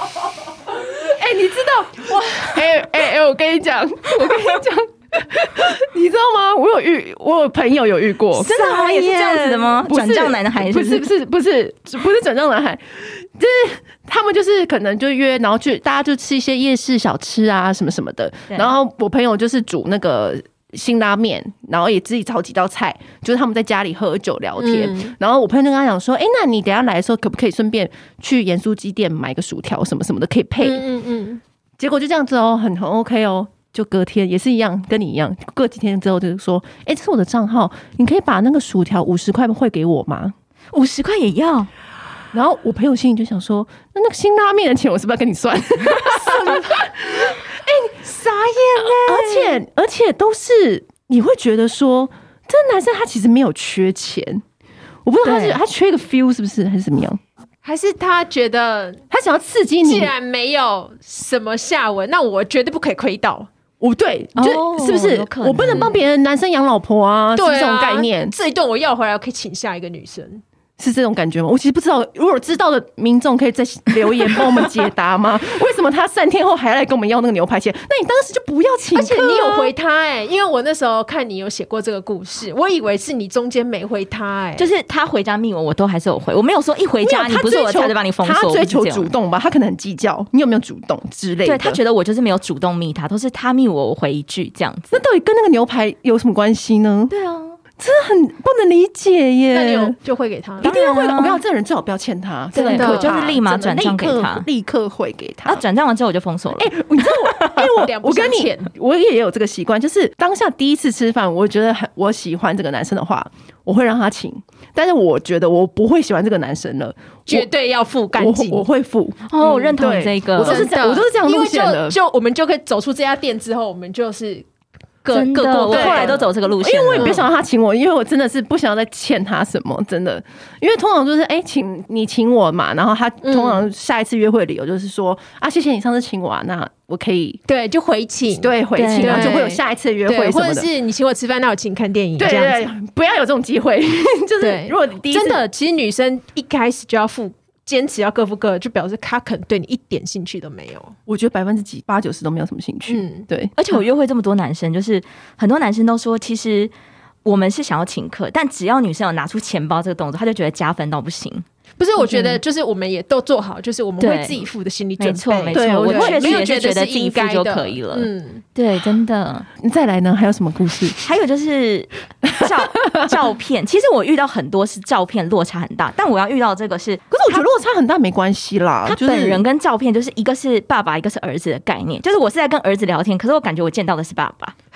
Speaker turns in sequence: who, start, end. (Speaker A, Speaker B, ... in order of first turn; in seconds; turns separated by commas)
Speaker A: 0.8-8.5, Speaker B: 8.3-11.1, Speaker C: 8.4-9.7, Speaker A: 9.8-30.8, Speaker C: 24.6-25.1, Speaker C: 30.6-31.4, Speaker A: 31.8-40.3, Speaker B: 40.7-41.7, Speaker A: 42.3-47.9, Speaker C: 47.7-49.6, Speaker A: 48.8-54.4, Speaker A: 55.0-57.2, Speaker B: 55.2-55.6, Speaker C: 57.6-59.0, Speaker A: 59.1-60.1, Speaker C: 59.8-63.5, Speaker A: 63.8-68.3, Speaker B: 64.3-65.9, Speaker C: 67.3-70.4, Speaker A: 70.8-79.7, Speaker C: 78.9-84.7, Speaker B: 84.6-89.1, Speaker A: 87.0-91.8, Speaker B: 91.4-95.0, Speaker A: 94.9-97.1, Speaker B: 97.1-97.6, Speaker A: 97.8-100.0, Speaker C: 99.5-100.7, Speaker A: 100.6-105.6, Speaker B: 100.6-101.4, Speaker B: 102.5-104.5, Speaker C: 102.5-103.2, Speaker B: 105.5-106.7, Speaker A: 106.6-117.5, Speaker C: 107.5-108.7, Speaker C: 117.3-118.7, Speaker A: 118.1-119.2, Speaker B: 119.3-120.7, Speaker C: 119.4-119.7, Speaker A: 119.7-122.0, Speaker C: 120.4-124.5, Speaker C: 125.0-126.3, Speaker B: 125.1-127.2, Speaker A: 125.7-137.4, Speaker C: 126.9-127.2, Speaker C: 133.2-133.7, Speaker C: 137.5-142.6, Speaker A: 138.3-140.7, Speaker B: 138.7-139.4, Speaker A: 142.2-145.4, Speaker C: 144.4-150.9, Speaker A: 151.1-153.5, Speaker C: 152.9-153.2, Speaker B: 153.6-156.7, Speaker B: 157.2-161.4, Speaker C: 161.8-168.4, Speaker A: 162.0-162.4, Speaker B: 164.0-164.5, Speaker B: 165.0-169.5, Speaker A: 165.5-166.4, Speaker A: 169.6-171.0, Speaker B: 171.0-177.4, Speaker A: 177.1-179.4, Speaker B: 178.8-184.5